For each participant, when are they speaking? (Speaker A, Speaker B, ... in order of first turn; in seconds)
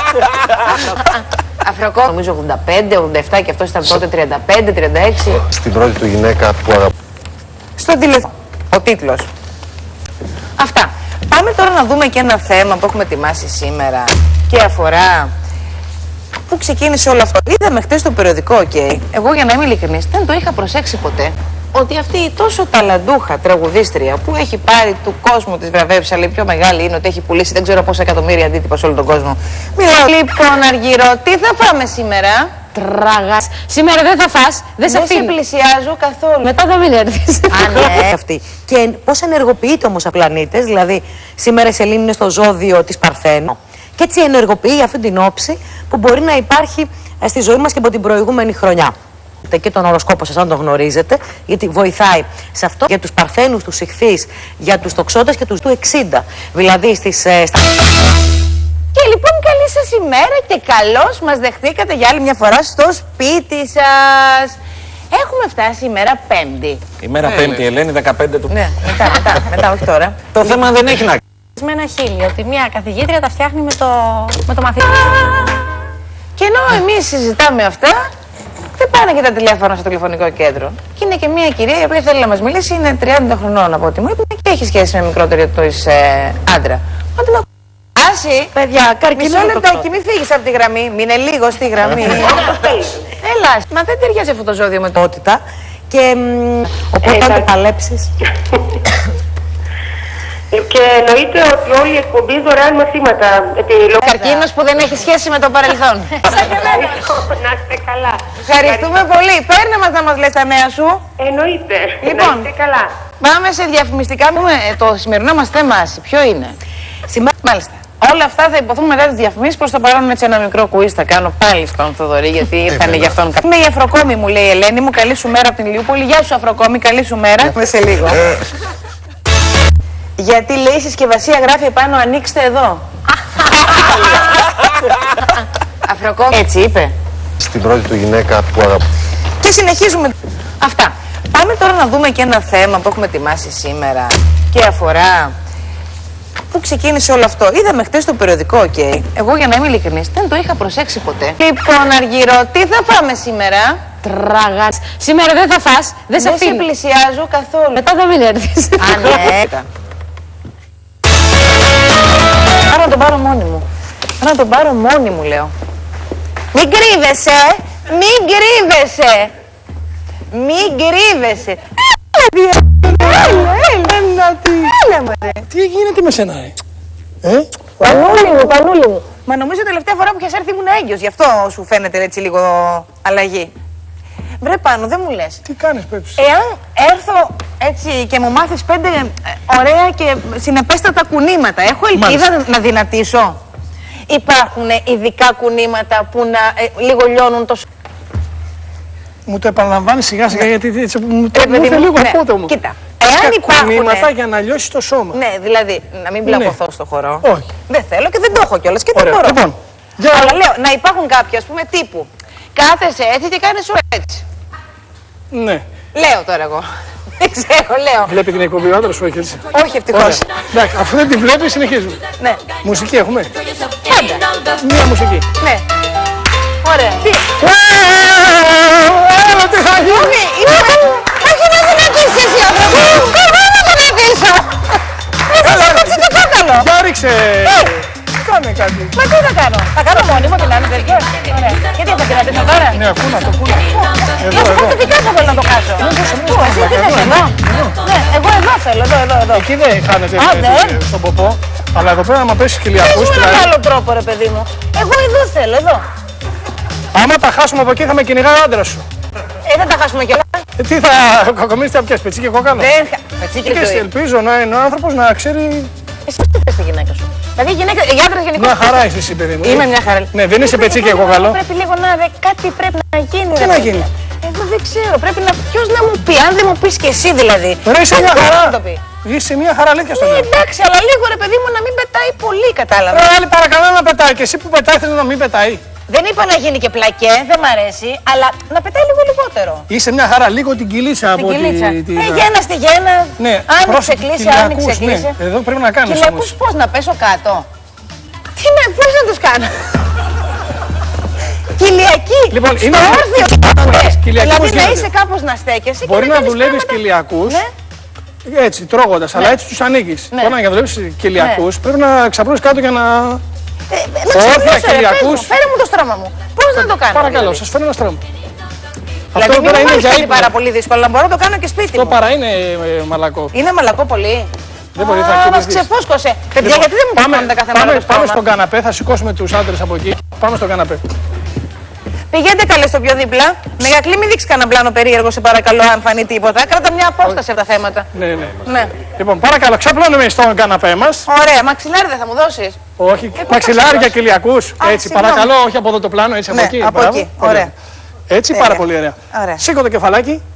Speaker A: 0.6-5.4, 7.8-9.3, 10.6-15.3, 16.5-32.6, 34.8-36.5, 37.5-38.2, 58.9-64.6, 65.1-66.8, 68.5-70.7, 71.6-75.6, 76.3-78.1, 78.8-92.5, 93.1-95.0, 104.0-106.8, 108.4-111.0, 112.0-112.5, 113.2-116.6, 117.4-128.4, 130.2-136.9, 139.4-145.3, 146.5-154.0, 156.2-157.8, 158.8-159.7, 162.5-163.7, 164.2-165.5, 166.5-169.3, 170.3-175.5, 177.8-183.5, 184.4-185.4, 186.2-193.4, 194.1-197.7, 201.3-204.1, 205.1-209.4, 210.1-214.2, 215.9-218.2, 219.5-220.2, 223.8-224.2, 225.4-225.7, 226.6-227.2, 229.8-236.7, 237.4-237.7, 238.9-242.8, 243.8-249.5, 250.1-250.8, 252.8-255.8, 259.4-260.4, 262.5-263.9, 266.1-268.9, 269.4-278.8, 279.9-283.1, 285.9-289.7, 291.2-295.2, 295.9-297.5, 298.3-299.8, 301.5-307.5, 311.2-311.4, 313.7-317.4, 319.1-322.0, 323.3-328.2, 332.1-337.9, 338.4-338.7, 341.1-342.6, 343.3-343.9, 344.6-345.3, 346.3-347.5, 348.3-349.4
Speaker B: 5.4-6.9, 137.4-138.8
Speaker C: 32.7-35.4, 36.4-37.6, 154.0-156.6, 157.8-159.1
Speaker D: 37.6-57.8, 88.6-89.9, 95.0-98.1
Speaker E: 67.0-68.5, 70.5-71.2
Speaker F: 92.2-92.9, 100.5-104.1, 106.3-109.0, 111.2-113.0
Speaker G: 172.9-173.4, 175.5-176.6, 177.2-177.5, 185.5-186.2, 191.9-192.3, 199.3-202.5, 203.1-205.2, 206.3-206.6, 207.2-207.5, 208.9-210.4, 215.3-215.6, 218.1-222.0, 222.6-223.3, 224.6-225.3, 227.4-230.2, 235.4-238.9, 242.7-244.8, 245.8-247.8, 249.3-253.5, 256.9-258.8, 260.6-262.7, 263.4-265.7, 268.4-271.4, 273.4-273.9, 277.6-280.3, 282.9-285.6, 289.7-292.3, 293.2-296.3, 302.3-304.9, 305.8-307.4, 308.2-313.2, 314.1-315.3, 316.6-318.0, 319.1-320.3, 321.8-323.3, 324.8-325.6, 326.4-330.8, 337.9-341.1, 342.8-347.5, 348.1-350.2